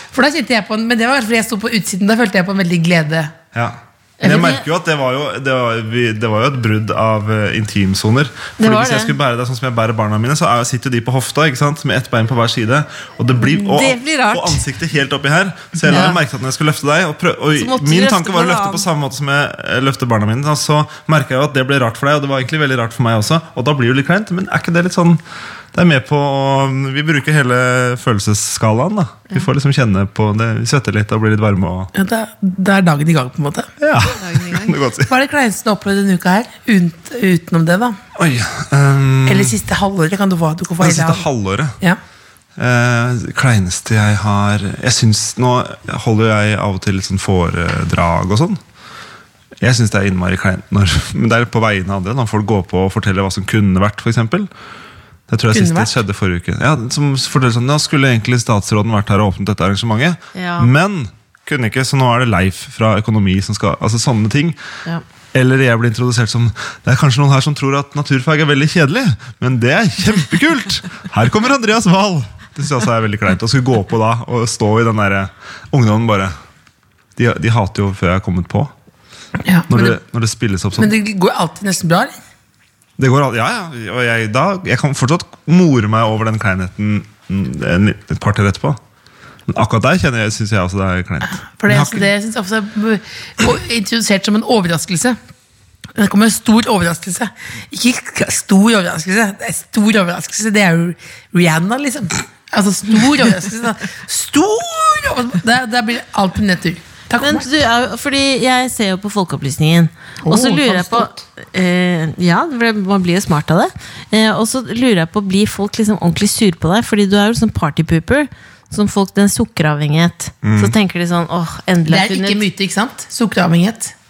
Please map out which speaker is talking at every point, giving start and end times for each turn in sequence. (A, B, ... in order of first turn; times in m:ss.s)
0:00.1-0:03.4 A
0:03.5-0:25.2 B
0:04.2-0:04.5 A
0:04.2-0:04.6 C
0:08.6-0:09.2 C
0:13.4-0:14.6 C
0:15.9-0:16.2 C
0:17.6-0:18.8 C
0:25.7-0:31.9 B
0:31.9-0:33.7 A
0:33.8-0:35.1 B
0:34.1-0:34.8 C
0:35.1-0:38.0 A
0:38.2-0:39.6 B
0:39.3-0:41.3 A
0:40.8-0:41.7 B
0:42.6-0:48.6 B
0:49.6-0:54.5 B
0:55.3-1:04.6 B
0:55.5-0:55.9 A
1:00.3-1:00.7 C
1:05.3-1:16.3 B
1:17.2-1:18.7 B
1:19.4-1:20.0 A
1:19.7-1:20.9 B
1:20.8-1:22.2 A
1:23.0-1:28.8 B
1:29.5-1:32.1 B
1:31.6-1:35.2 A
1:36.0-1:47.5 A
1:47.2-2:02.4 C
1:50.2-1:51.2 A
2:00.4-2:00.8 B
2:01.9-2:03.9 A